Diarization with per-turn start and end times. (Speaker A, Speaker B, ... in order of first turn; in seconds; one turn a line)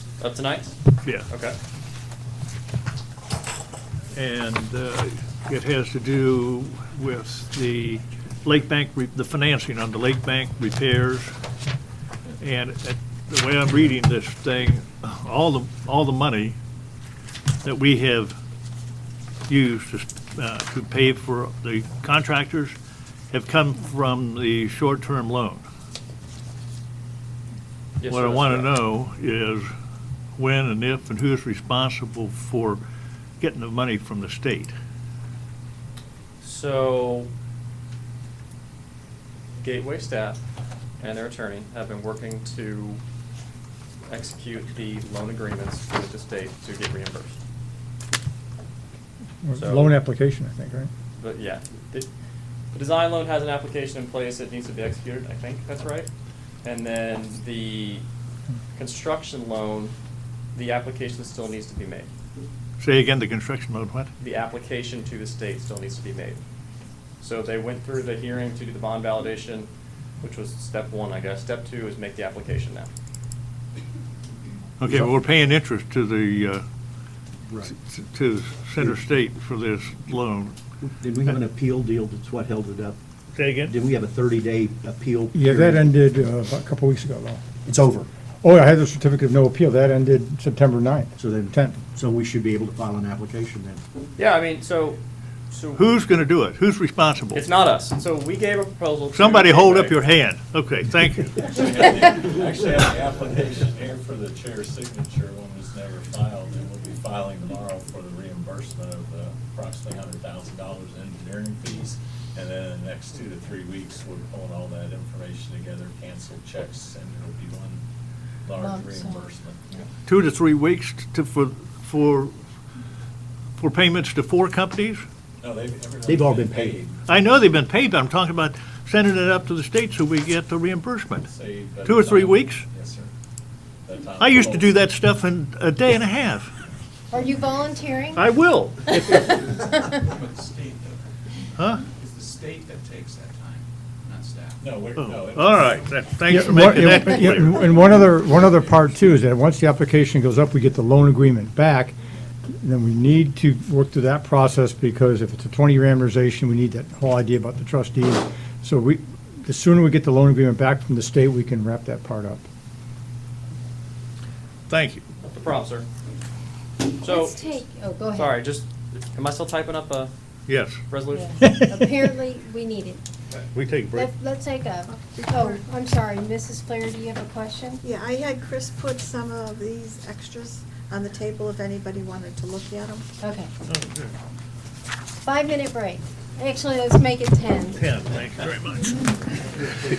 Speaker A: 0.2-1.6
Speaker B: 4.1-11.3
Speaker B: 12.4-16.6
Speaker B: 17.6-18.4
Speaker B: 19.5-22.8
Speaker B: 23.3-25.6
Speaker A: 28.0-28.7
Speaker B: 28.1-29.7
Speaker B: 30.4-32.8
Speaker B: 33.4-34.7
Speaker A: 36.4-37.3
Speaker A: 39.6-40.4
Speaker A: 41.0-43.0
Speaker A: 44.1-47.4
Speaker C: 49.4-50.9
Speaker A: 49.5-49.9
Speaker A: 51.2-52.1
Speaker A: 52.7-56.1
Speaker A: 56.6-58.0
Speaker A: 58.8-60.0
Speaker A: 60.5-62.1
Speaker B: 62.8-64.1
Speaker A: 64.2-66.4
Speaker A: 67.2-69.7
Speaker A: 70.2-72.9
Speaker B: 74.8-76.6
Speaker D: 74.8-75.1
Speaker D: 77.5-77.8
Speaker B: 77.7-80.6
Speaker D: 80.8-83.0
Speaker B: 83.3-83.7
Speaker D: 83.6-85.9
Speaker C: 85.3-87.4
Speaker D: 87.7-88.1
Speaker C: 88.4-91.8
Speaker D: 91.2-93.8
Speaker A: 94.2-95.9
Speaker B: 95.8-97.4
Speaker A: 97.3-100.0
Speaker B: 99.1-101.4
Speaker E: 101.4-117.8
Speaker E: 118.5-119.8
Speaker F: 118.6-119.3
Speaker B: 120.1-122.3
Speaker B: 123.6-125.0
Speaker E: 125.4-127.0
Speaker D: 126.1-126.8
Speaker B: 127.1-131.3
Speaker E: 131.3-133.1
Speaker B: 131.8-132.7
Speaker E: 133.8-134.8
Speaker B: 134.2-136.5
Speaker F: 137.1-138.3
Speaker B: 138.1-139.4
Speaker F: 138.9-139.2
Speaker G: 139.8-141.1
Speaker B: 141.6-141.8
Speaker G: 141.9-144.6
Speaker E: 144.6-146.0
Speaker B: 145.0-147.6
Speaker C: 146.3-151.9
Speaker C: 152.5-162.5
Speaker B: 164.7-165.0
Speaker A: 165.2-165.9
Speaker A: 167.0-167.6
Speaker F: 167.0-168.4
Speaker A: 168.1-170.1
Speaker B: 170.5-170.8
Speaker A: 170.9-171.5
Speaker F: 171.1-173.0
Speaker C: 171.4-171.9
Speaker B: 173.5-174.1
Speaker F: 173.9-177.9
Speaker H: 177.9-183.0
Speaker F: 183.2-183.5
Speaker B: 183.7-184.1
Speaker F: 185.2-187.8
Speaker B: 187.8-189.0